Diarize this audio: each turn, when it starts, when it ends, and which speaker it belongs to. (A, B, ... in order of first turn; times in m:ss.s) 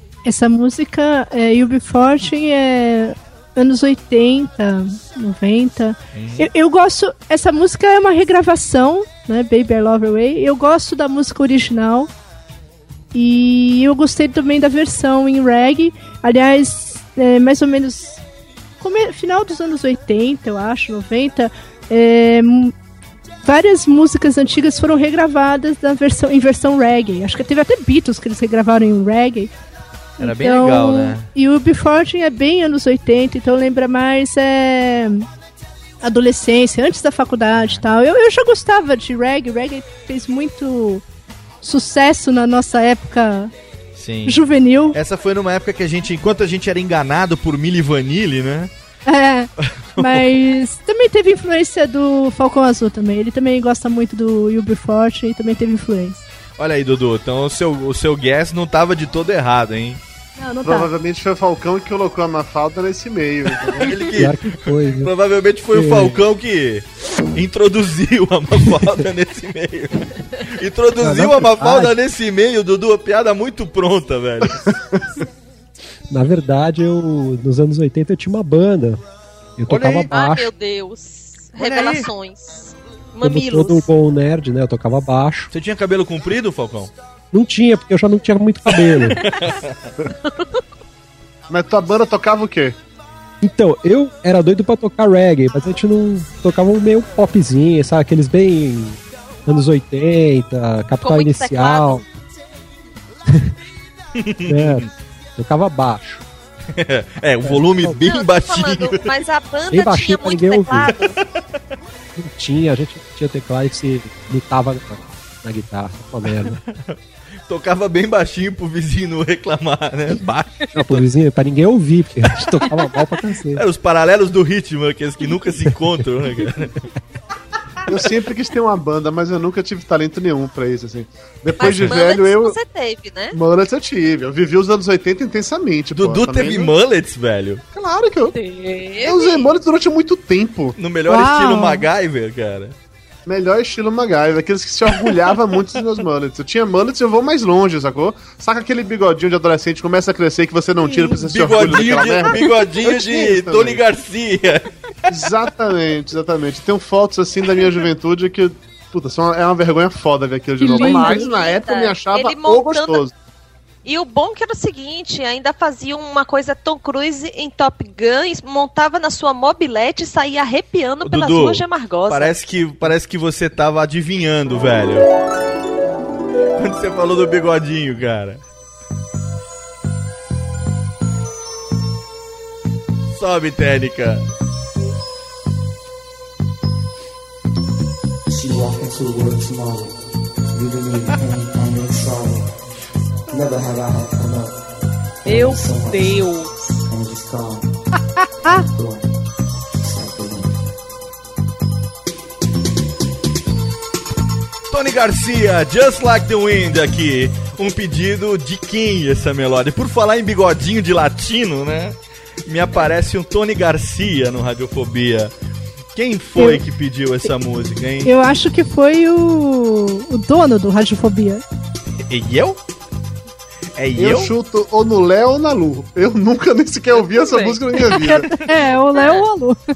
0:00.2-0:12.1 A
0:06.1-0:06.5 B
0:13.1-0:18.2 A
0:18.8-0:22.7 A
0:23.4-0:29.5 A
0:30.2-0:35.3 A
0:30.2-0:31.3 B
0:36.0-0:41.0 A
0:37.6-0:37.8 B
0:41.6-0:43.5 A
0:44.0-0:48.7 B
0:44.3-0:45.0 A
0:49.1-0:56.2 A
0:49.6-0:50.4 B
0:56.6-1:00.0 B
1:00.4-1:00.9 A
1:00.6-1:04.0 C
1:03.8-1:14.6 B
1:04.1-1:05.1 D
1:05.7-1:06.2 D
1:11.0-1:12.0 D
1:16.1-1:19.0 D
1:19.6-1:20.5 D
1:19.7-1:20.1 B
1:20.1-1:23.9 E
1:21.6-1:22.1 B
1:23.2-1:25.5 D
1:25.5-1:26.9 B
1:27.3-1:29.2 D
1:29.2-1:29.8 B
1:30.2-1:30.6 E
1:31.5-1:32.8 C
1:33.4-1:42.0 D
1:41.0-1:42.0 E
1:44.2-1:44.9 B
1:44.4-1:46.2 D
1:46.7-1:49.1 B
1:47.4-1:48.0 D
1:48.0-1:51.2 E
1:49.7-1:51.0 D
1:52.2-1:56.6 D
1:57.5-2:01.1 B
2:00.8-2:03.6 D
2:03.5-2:06.7 B
2:07.9-2:12.6 C
2:11.6-2:13.4 E
2:11.6-2:12.0 B
2:13.3-2:16.7 C
2:15.9-2:17.6 B
2:17.7-2:18.4 C
2:18.3-2:19.5 E
2:19.0-2:20.8 C
2:20.8-2:22.8 B
2:21.1-2:21.9 A
2:23.3-2:33.8 C
2:30.9-2:35.1 B
2:35.1-2:43.1 C
2:40.6-2:41.2 A
2:40.7-2:43.0 E
2:43.8-2:52.4 E
2:51.0-2:55.1 B
2:56.6-2:58.4 B
3:03.1-3:04.2 B
3:08.4-3:10.0 F
3:10.5-3:12.5 F
3:13.3-3:14.6 F
3:15.2-3:17.7 F
3:15.3-3:16.5 E
3:18.4-3:19.1 F
3:19.7-3:20.6 F
3:24.7-3:35.3 B
3:35.9-3:38.1 B
3:36.4-3:36.6 A
3:38.0-3:41.4 A
3:42.1-3:42.6 B
3:43.8-3:44.3 B
3:44.0-3:48.4 C
3:46.9-3:47.7 E
3:48.3-3:49.6 A
3:48.9-3:49.3 E